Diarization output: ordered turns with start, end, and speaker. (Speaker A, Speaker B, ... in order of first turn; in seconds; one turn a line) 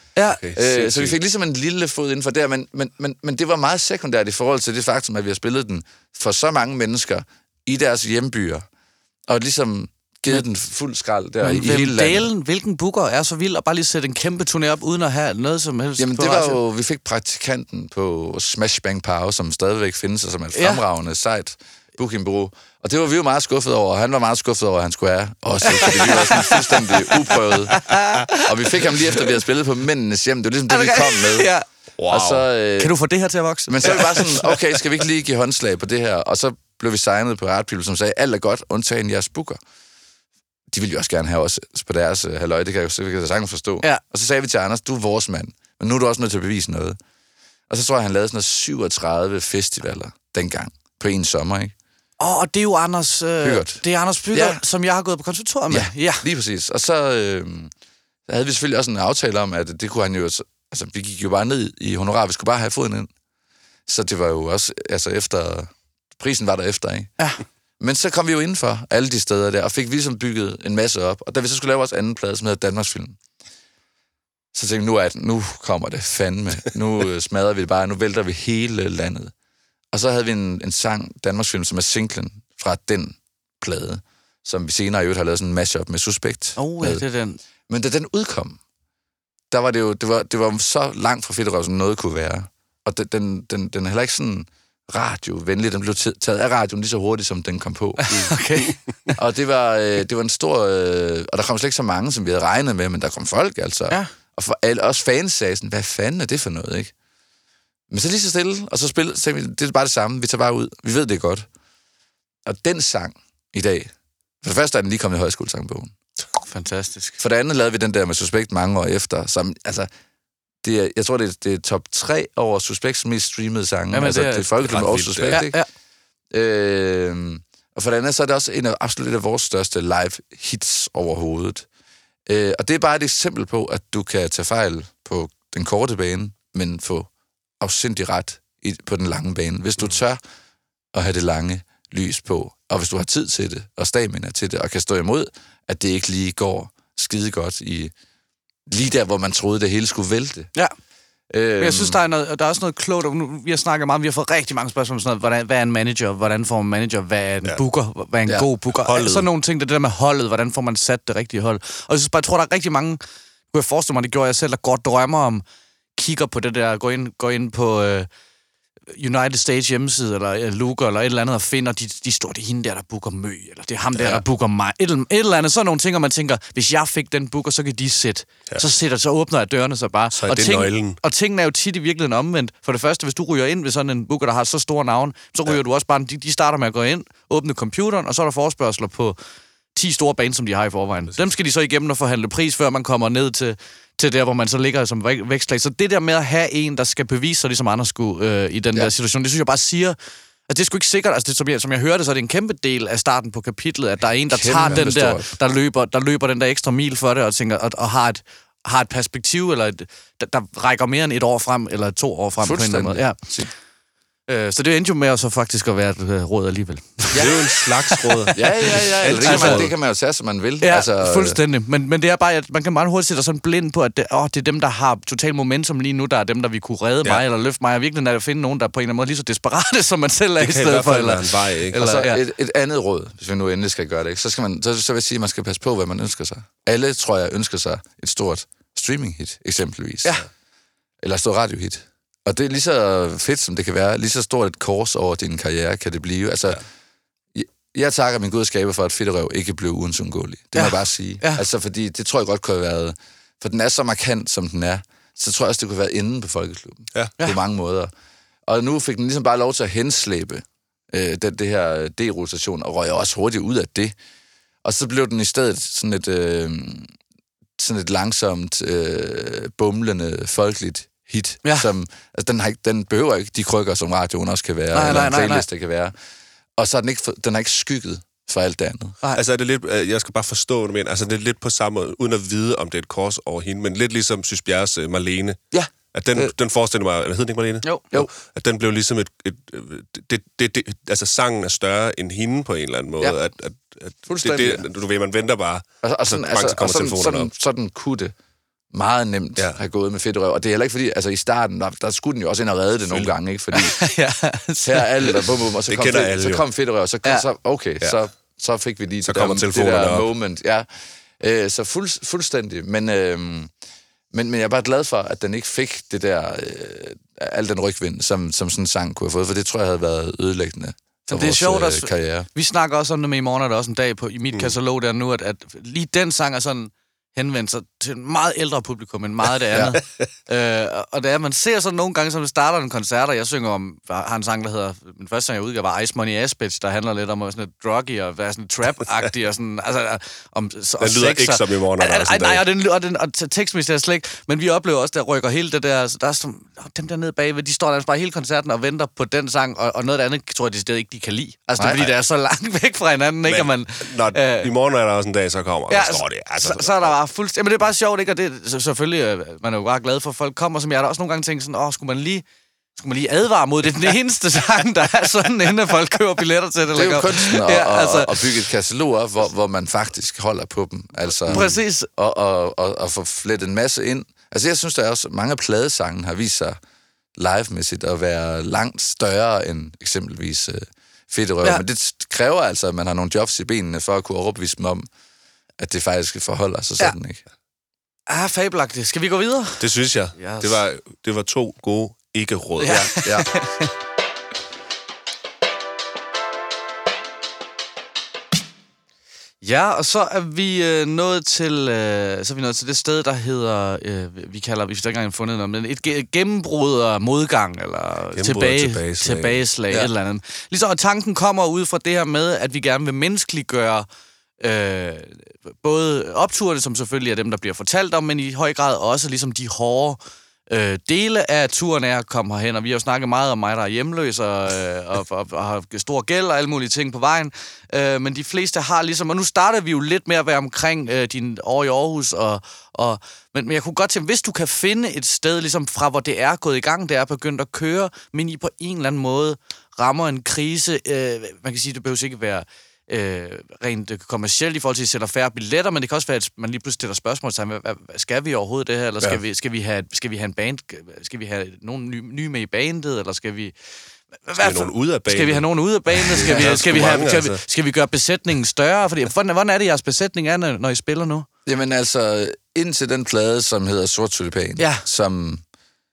Speaker A: 0.1-0.5
Speaker B: 0.4-1.1
Speaker C: 0.5-8.6
Speaker C: 9.3-12.3
Speaker A: 11.4-16.6
Speaker C: 16.0-31.5
Speaker A: 20.5-20.8
Speaker A: 25.6-29.2
Speaker A: 30.7-31.6
Speaker B: 32.0-32.4
Speaker C: 32.1-32.9
Speaker A: 32.8-34.5
Speaker C: 33.7-39.6
Speaker C: 40.7-47.0
Speaker C: 47.7-51.7
Speaker A: 52.2-56.2
Speaker C: 53.4-54.6
Speaker C: 55.7-57.7
Speaker C: 58.3-63.1
Speaker C: 63.9-67.1
Speaker C: 67.8-73.2
Speaker C: 74.5-79.3
Speaker C: 79.9-87.0
Speaker A: 86.6-87.4
Speaker C: 87.7-88.6
Speaker C: 89.5-98.2
Speaker A: 98.0-99.2
Speaker C: 99.2-106.9
Speaker C: 107.9-111.5
Speaker C: 112.4-113.9
Speaker C: 114.4-115.9
Speaker A: 116.4-117.2
Speaker C: 117.2-119.9
Speaker C: 120.6-125.6
Speaker A: 123.9-124.5
Speaker B: 124.6-125.4
Speaker A: 125.3-125.7
Speaker C: 126.3-131.7
Speaker C: 132.3-137.1
Speaker C: 137.6-140.2
Speaker C: 140.9-147.9
Speaker C: 148.7-150.5
Speaker C: 151.3-152.0
Speaker A: 151.6-163.0
Speaker B: 158.8-159.3
Speaker A: 163.5-165.4
Speaker A: 165.9-168.1
Speaker A: 168.9-189.2
Speaker B: 180.1-181.0
Speaker A: 189.7-200.0
Speaker A: 200.5-213.3
Speaker C: 204.3-205.3
Speaker C: 212.4-213.5
Speaker A: 214.3-219.6
Speaker C: 217.1-217.4
Speaker B: 217.1-219.7
Speaker C: 218.3-221.4
Speaker A: 220.6-232.2
Speaker B: 230.4-231.8
Speaker C: 231.7-240.2
Speaker C: 241.0-246.6
Speaker C: 247.3-257.9
Speaker A: 250.5-251.4
Speaker C: 258.5-263.9
Speaker C: 264.6-266.9
Speaker C: 267.6-275.9
Speaker A: 271.4-271.7
Speaker A: 274.7-275.4
Speaker C: 276.6-279.0
Speaker B: 279.1-285.4
Speaker C: 285.5-286.3
Speaker B: 285.9-297.3
Speaker C: 294.1-294.6
Speaker C: 295.8-298.1
Speaker C: 298.7-303.8
Speaker A: 303.6-305.2
Speaker C: 304.6-310.7
Speaker B: 305.7-306.4
Speaker B: 309.0-310.1
Speaker C: 311.2-313.5
Speaker C: 314.1-322.3
Speaker A: 321.1-354.5
Speaker C: 329.5-329.8
Speaker B: 340.8-342.4
Speaker C: 351.6-351.8
Speaker B: 353.2-356.9
Speaker A: 355.7-362.2
Speaker A: 362.8-368.3
Speaker C: 366.7-376.6
Speaker B: 371.3-371.6
Speaker A: 371.3-371.9
Speaker C: 377.2-384.9
Speaker C: 385.6-387.2
Speaker A: 388.1-390.6
Speaker B: 389.6-393.1
Speaker A: 392.6-393.7
Speaker C: 392.7-393.3
Speaker A: 399.4-413.9
Speaker B: 408.1-409.9
Speaker A: 414.4-453.5
Speaker A: 454.2-461.2
Speaker B: 454.4-457.4
Speaker C: 456.1-457.1
Speaker C: 461.4-465.4
Speaker A: 464.6-464.9